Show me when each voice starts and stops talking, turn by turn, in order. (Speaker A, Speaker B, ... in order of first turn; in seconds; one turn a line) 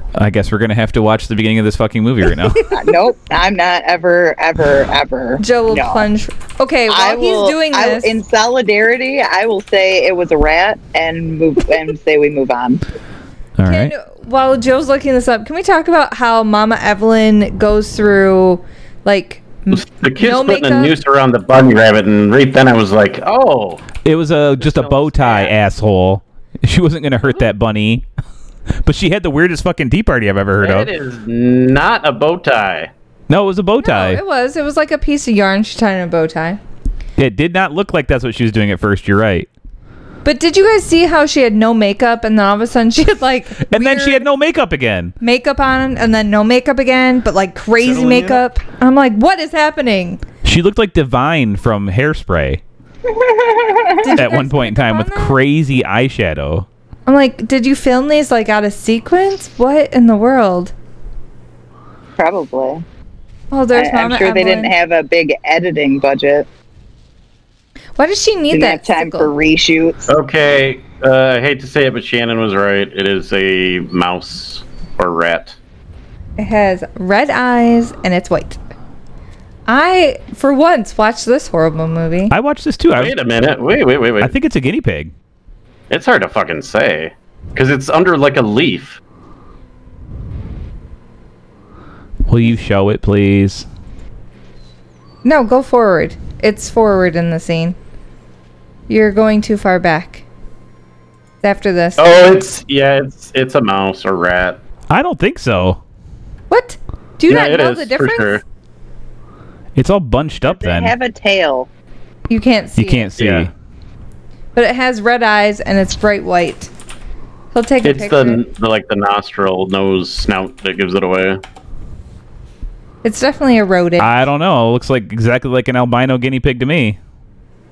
Speaker A: 0.1-2.7
Speaker B: 2.7-6.1
Speaker C: 5.4-8.2
Speaker B: 6.9-12.8
Speaker A: 13.6-13.9
Speaker C: 13.7-20.9
Speaker D: 19.7-23.9
Speaker A: 24.0-28.1
Speaker D: 24.6-25.5
Speaker A: 28.8-30.9
Speaker D: 30.6-32.9
Speaker A: 33.3-34.2
Speaker C: 33.8-36.6
Speaker A: 37.2-39.5
Speaker C: 40.2-44.2
Speaker A: 43.6-45.1
Speaker C: 45.2-50.2
Speaker D: 47.9-48.3
Speaker A: 50.4-52.6
Speaker B: 53.0-54.1
Speaker C: 54.0-55.4
Speaker A: 54.1-56.7
Speaker C: 57.0-60.7
Speaker B: 62.2-62.8
Speaker C: 63.5-64.7
Speaker B: 63.7-66.5
Speaker C: 68.0-69.3
Speaker B: 68.5-70.1
Speaker D: 70.1-75.6
Speaker C: 76.4-78.6
Speaker C: 79.7-82.3
Speaker A: 82.3-83.1
Speaker D: 83.0-84.3
Speaker A: 84.2-85.1
Speaker D: 85.9-89.0
Speaker A: 92.3-93.7
Speaker C: 95.2-97.8
Speaker C: 98.9-100.2
Speaker C: 101.4-102.3
Speaker D: 102.0-104.6
Speaker A: 104.9-105.8
Speaker C: 106.5-108.4
Speaker D: 107.3-108.4
Speaker A: 109.8-110.9
Speaker B: 110.4-111.7
Speaker C: 112.3-113.1
Speaker A: 112.8-113.5
Speaker D: 113.2-113.5
Speaker C: 114.5-116.7
Speaker C: 117.5-118.4
Speaker D: 117.8-121.4
Speaker C: 123.0-124.1
Speaker A: 124.0-127.0